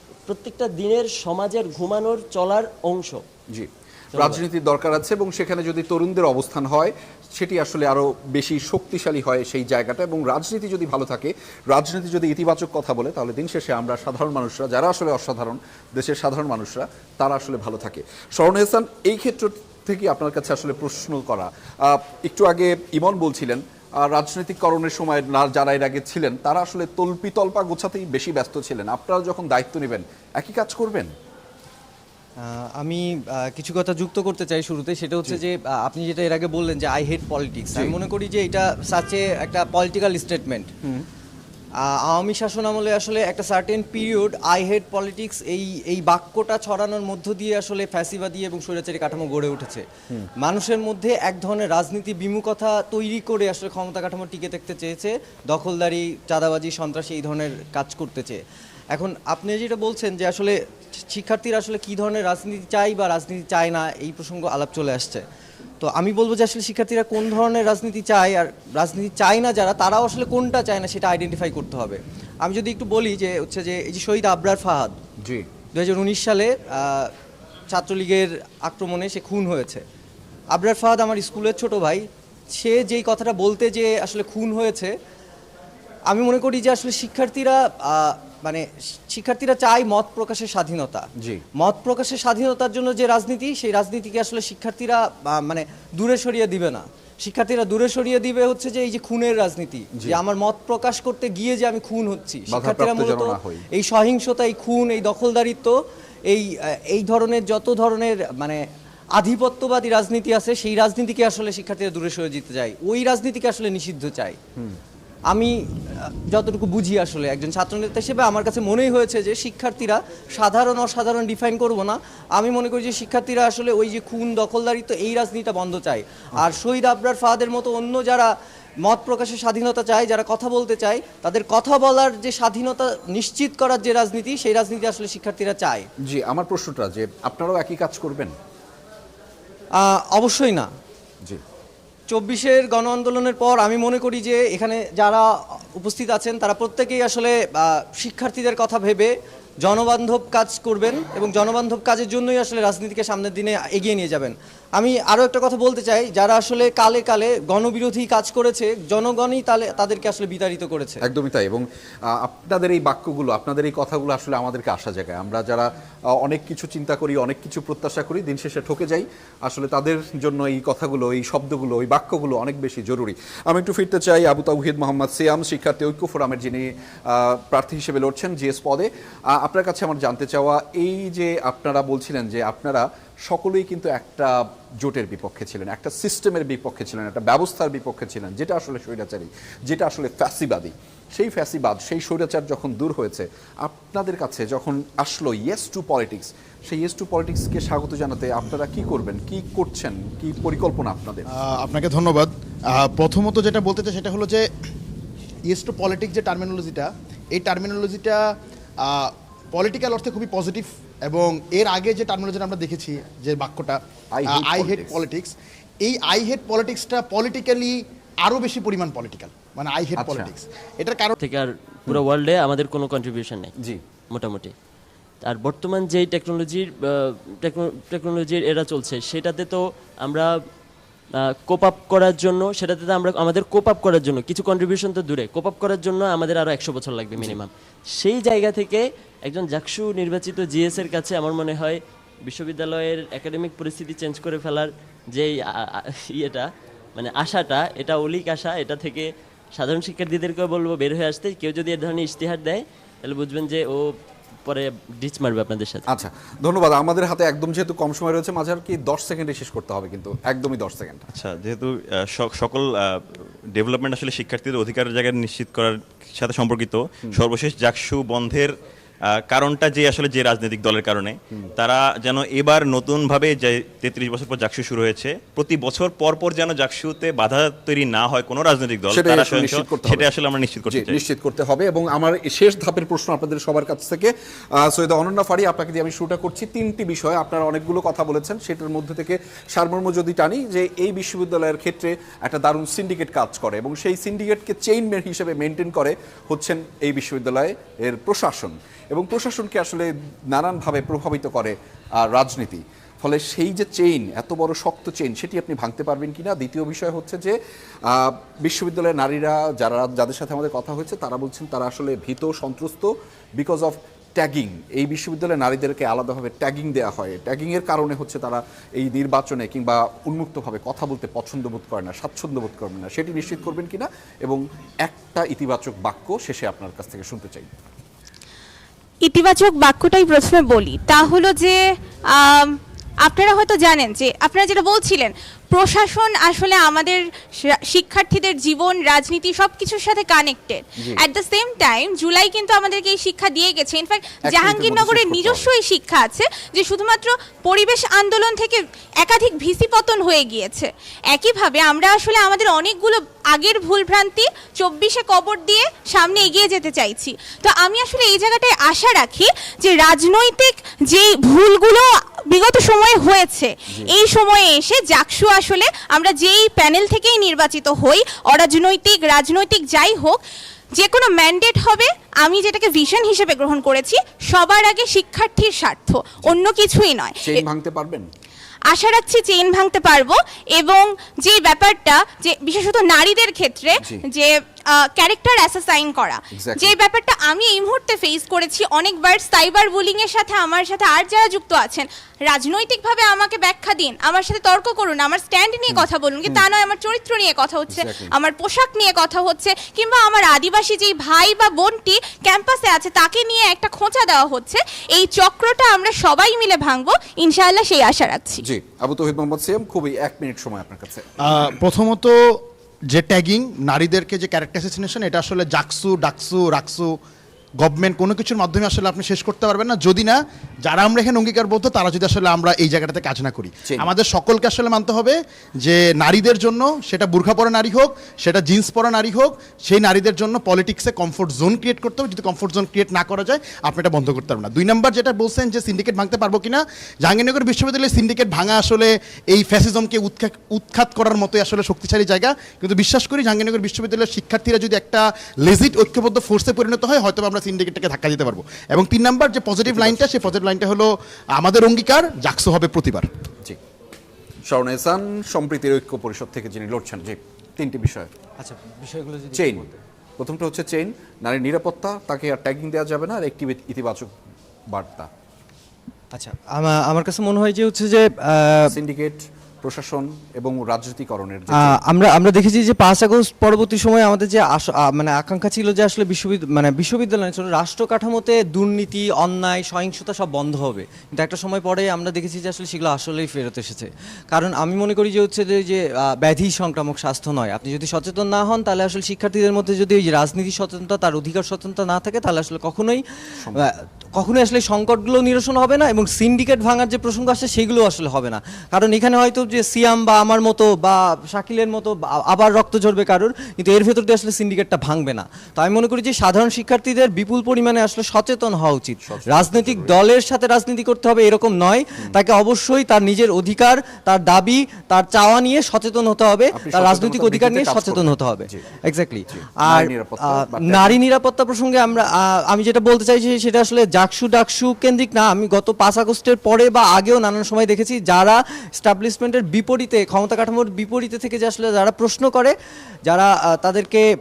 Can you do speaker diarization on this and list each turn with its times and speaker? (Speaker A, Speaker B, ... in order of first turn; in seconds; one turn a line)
Speaker A: 0.3-3.2
Speaker B: 3.5-31.1
Speaker A: 4.2-4.4
Speaker C: 32.4-40.7
Speaker C: 41.8-49.9
Speaker C: 50.4-58.4
Speaker C: 58.9-65.2
Speaker C: 65.8-75.0
Speaker B: 75.2-75.5
Speaker C: 75.7-77.1
Speaker C: 77.7-79.8
Speaker C: 80.5-84.9
Speaker C: 86.1-105.8
Speaker B: 91.2-91.4
Speaker B: 99.9-100.2
Speaker B: 102.5-103.6
Speaker C: 106.3-108.6
Speaker C: 109.2-114.4
Speaker C: 115.3-128.3
Speaker C: 128.8-135.9
Speaker B: 136.0-138.3
Speaker C: 139.8-140.7
Speaker C: 142.1-161.0
Speaker B: 161.0-201.3
Speaker D: 201.3-204.5
Speaker D: 205.5-208.2
Speaker D: 208.8-221.2
Speaker B: 214.1-215.0
Speaker B: 220.0-220.3
Speaker A: 221.2-223.5
Speaker A: 224.1-224.5
Speaker A: 225.2-230.4
Speaker A: 231.2-255.9
Speaker B: 255.9-261.1
Speaker E: 261.1-268.5
Speaker E: 269.1-281.0
Speaker B: 278.9-280.1
Speaker B: 280.7-307.3
Speaker B: 307.9-327.5
Speaker F: 329.0-331.6
Speaker F: 332.1-370.2
Speaker B: 344.3-345.5
Speaker F: 370.8-377.4
Speaker B: 377.2-378.1
Speaker F: 378.7-408.4
Speaker B: 386.3-386.8
Speaker B: 395.7-396.5
Speaker B: 397.7-398.1
Speaker B: 408.4-411.1
Speaker D: 411.2-416.9
Speaker D: 417.6-453.1
Speaker B: 449.7-450.3
Speaker B: 454.5-458.1
Speaker C: 458.4-459.8
Speaker B: 459.3-459.7
Speaker B: 460.2-464.2
Speaker B: 464.7-465.1
Speaker C: 466.1-468.8
Speaker B: 468.7-471.8
Speaker C: 471.6-532.5
Speaker B: 493.4-493.6
Speaker B: 509.0-509.9
Speaker B: 516.5-518.6
Speaker B: 519.3-521.0
Speaker C: 533.1-534.1